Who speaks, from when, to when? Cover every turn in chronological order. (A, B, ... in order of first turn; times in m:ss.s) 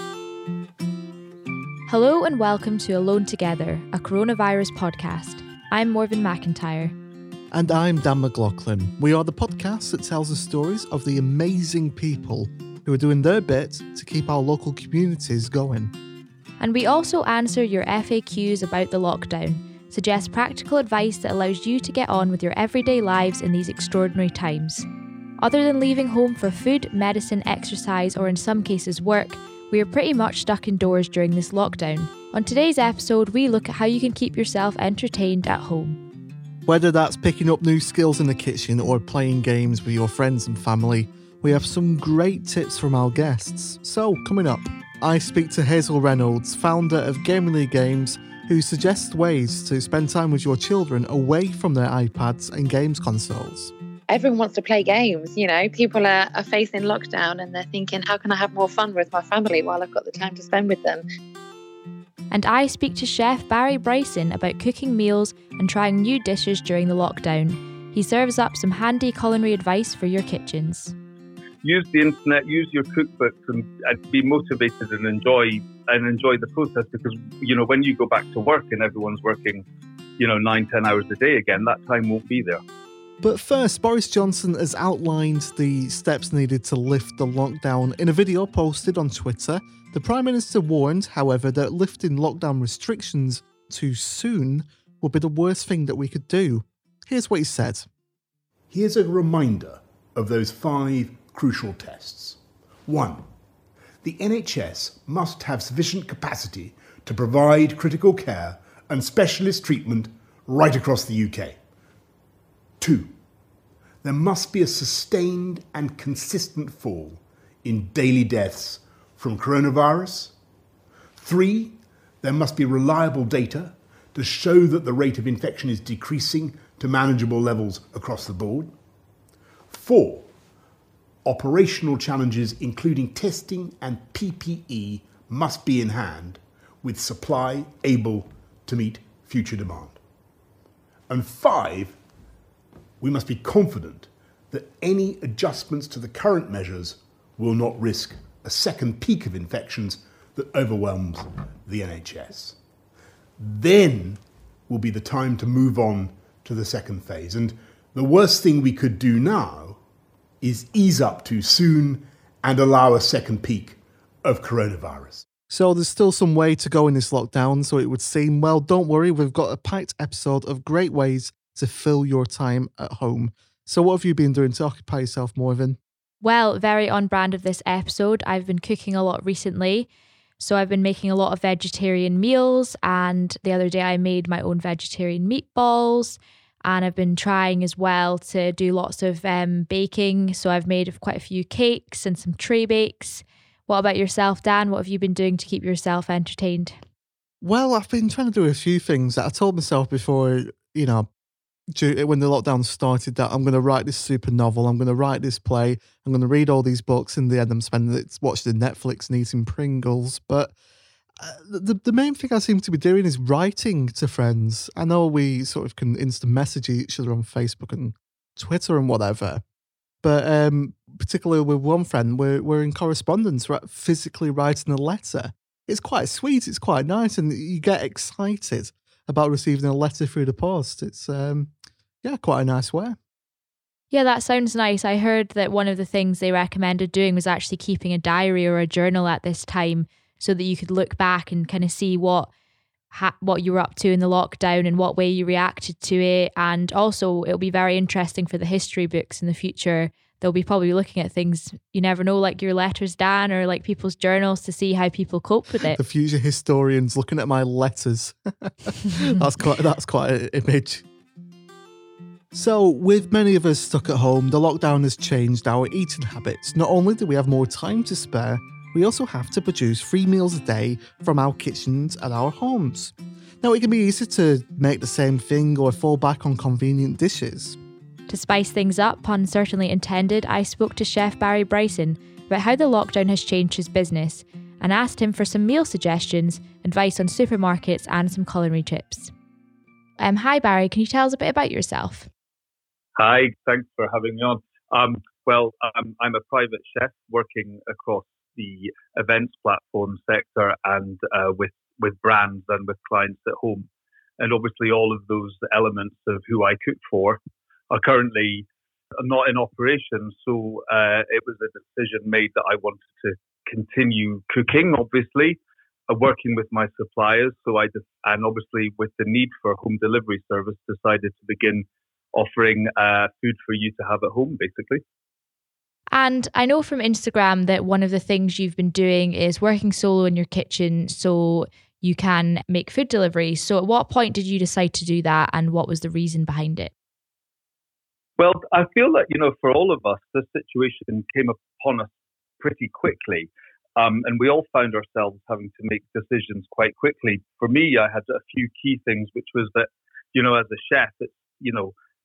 0:01.9-0:06.9 A
0:07.5-0:15.9 B
0:16.6-0:24.9 A
0:25.4-0:36.0 A
0:36.6-0:53.7 B
0:54.1-1:01.0 C
1:02.3-1:10.9 A
1:11.6-1:19.6 D
1:20.2-1:22.6 D
1:23.2-1:37.9 B
1:38.7-1:43.2 E
1:44.0-1:51.6 E
1:52.8-1:53.1 E
1:54.0-2:00.3 E
2:01.2-2:08.7 E
2:09.7-2:10.3 E
2:11.2-2:20.0 E
2:21.1-2:22.0 E
2:23.0-2:32.6 E
2:33.4-2:39.8 E
2:40.4-2:45.2 E
2:45.5-2:55.8 B
2:56.2-3:16.8 A
3:17.4-3:21.1 B
3:21.7-3:30.5 B
3:31.2-3:39.4 B
3:40.0-3:51.5 B
3:52.0-3:53.0 B
3:53.9-4:02.3 A
4:02.9-4:15.8 A
4:15.7-4:20.8 B
4:22.3-4:37.6 B
4:38.1-4:49.1 A
4:50.0-4:52.1 A
4:53.0-5:03.6 D
5:04.2-5:07.2 D
5:07.7-5:08.4 D
5:09.0-5:24.8 D
5:25.9-5:36.7 A
5:38.2-5:51.7 D